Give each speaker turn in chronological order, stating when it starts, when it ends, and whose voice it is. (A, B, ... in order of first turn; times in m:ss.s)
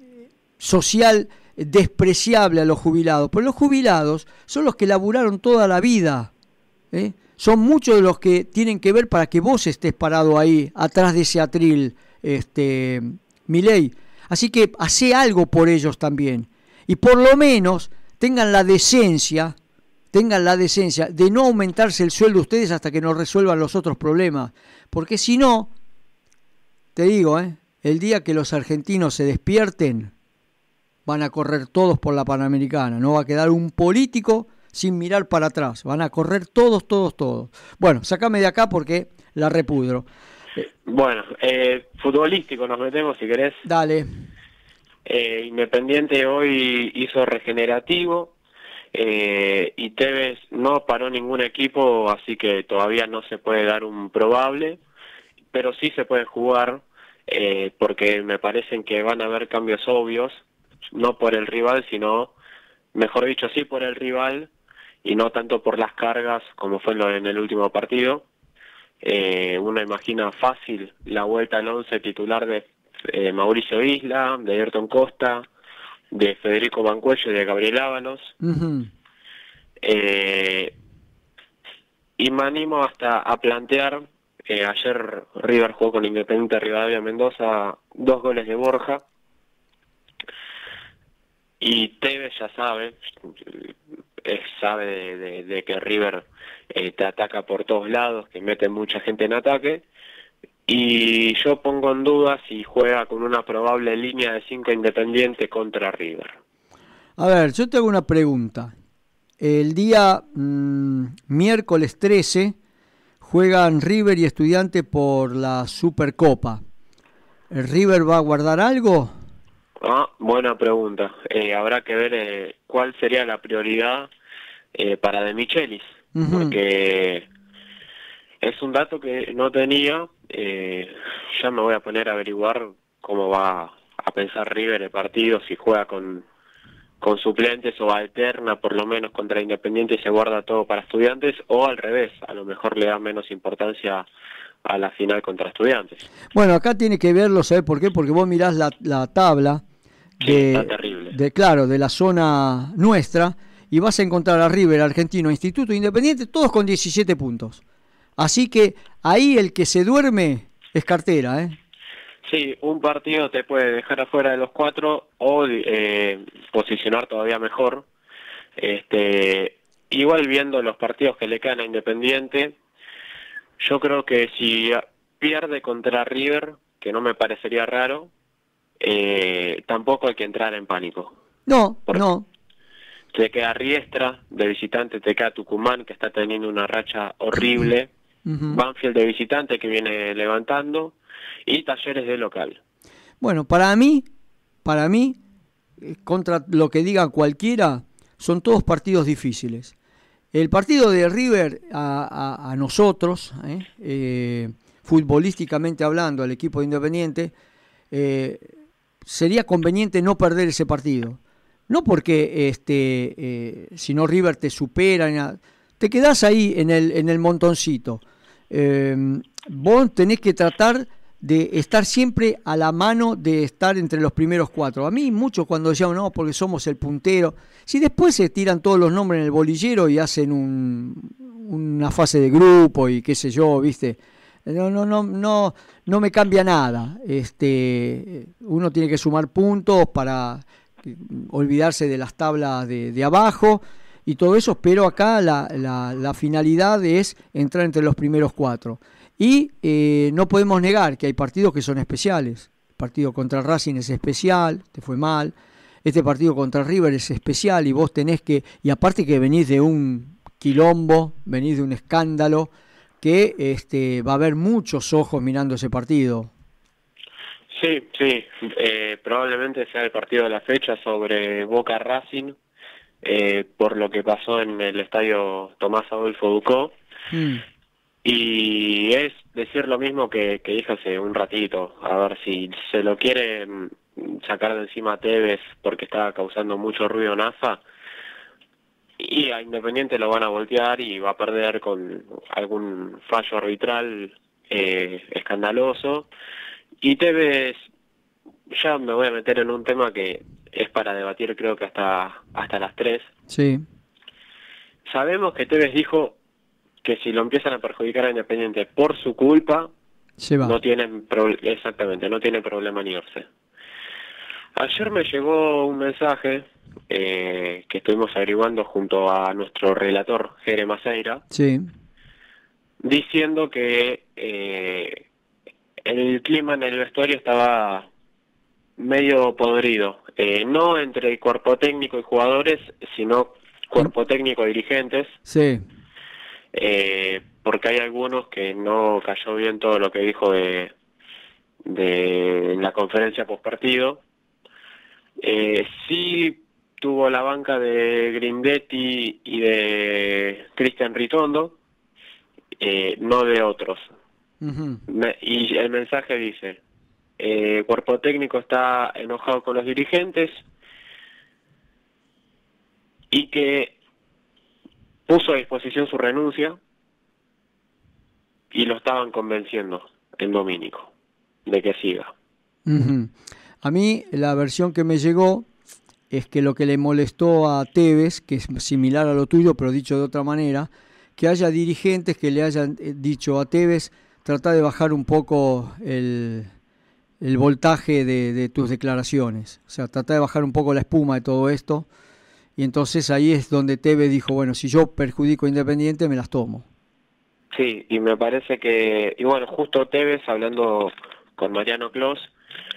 0:00.6-0:06.3 A
0:06.9-0:19.6 A
0:20.1-0:25.7 A
0:27.0-0:30.1 A
0:31.0-0:40.7 A
0:40.8-0:43.6 B
0:43.6-0:44.1 A
0:45.0-0:48.3 B
0:48.9-0:54.8 B
0:55.5-1:02.3 B
1:02.9-1:04.5 B
1:05.0-1:08.2 B
1:09.0-1:15.4 B
1:16.1-1:18.3 B
1:18.4-1:18.9 A
1:19.8-1:20.7 B
1:22.2-1:29.0 B
1:31.6-1:33.7 B
1:34.2-1:39.8 B
1:40.7-1:46.4 B
1:47.2-1:48.7 A
1:49.4-1:52.6 A
1:53.2-1:56.6 A
1:57.5-1:59.2 A
1:59.8-2:04.1 B
2:04.7-2:07.3 B
2:06.1-2:06.6 A
2:08.4-2:16.2 B
2:17.0-2:24.1 B
2:24.6-2:26.0 B
2:26.3-2:29.6 A
2:30.2-2:37.6 A
2:30.2-2:31.2 B
2:38.2-2:41.6 A
2:42.2-2:47.8 B
2:48.6-2:52.6 B
2:53.6-2:58.1 B
2:58.8-3:01.1 B
3:01.4-3:02.2 A
3:03.1-3:07.9 B
3:08.2-3:08.6 A
3:08.5-3:10.9 B
3:11.4-3:12.6 B
3:13.2-3:14.0 A
3:14.6-3:15.2 A
3:15.8-3:19.7 A
3:20.3-3:27.3 A
3:27.9-3:28.5 A
3:29.0-4:22.5 A
4:23.0-4:26.3 A
4:27.5-4:32.4 B
4:33.0-4:36.7 B
4:37.1-4:37.4 A
4:38.0-4:47.6 B
4:49.0-4:56.1 B
4:56.8-4:57.6 B
4:58.5-5:03.1 B
5:03.3-5:03.6 A
5:04.9-5:06.2 B
5:06.8-5:09.7 B
5:10.2-5:10.6 A
5:10.4-5:13.2 B
5:14.6-5:21.2 B
5:21.3-5:21.7 A
5:22.8-5:25.0 B
5:25.8-5:27.9 B
5:28.8-5:35.2 B
5:35.2-5:35.6 A
5:36.5-5:40.7 B
5:41.6-5:44.0 B
5:45.2-5:51.6 B
5:52.6-5:53.9 B
5:54.4-5:54.8 A
5:54.9-5:56.6 B
5:57.2-6:00.4 B
6:03.1-6:03.7 B
6:05.1-6:06.6 B
6:08.5-6:10.9 B
6:11.4-6:12.1 B
6:12.6-6:15.5 A
6:16.1-6:26.5 A
6:27.2-6:31.9 A
6:32.6-6:36.6 A
6:37.5-6:42.3 B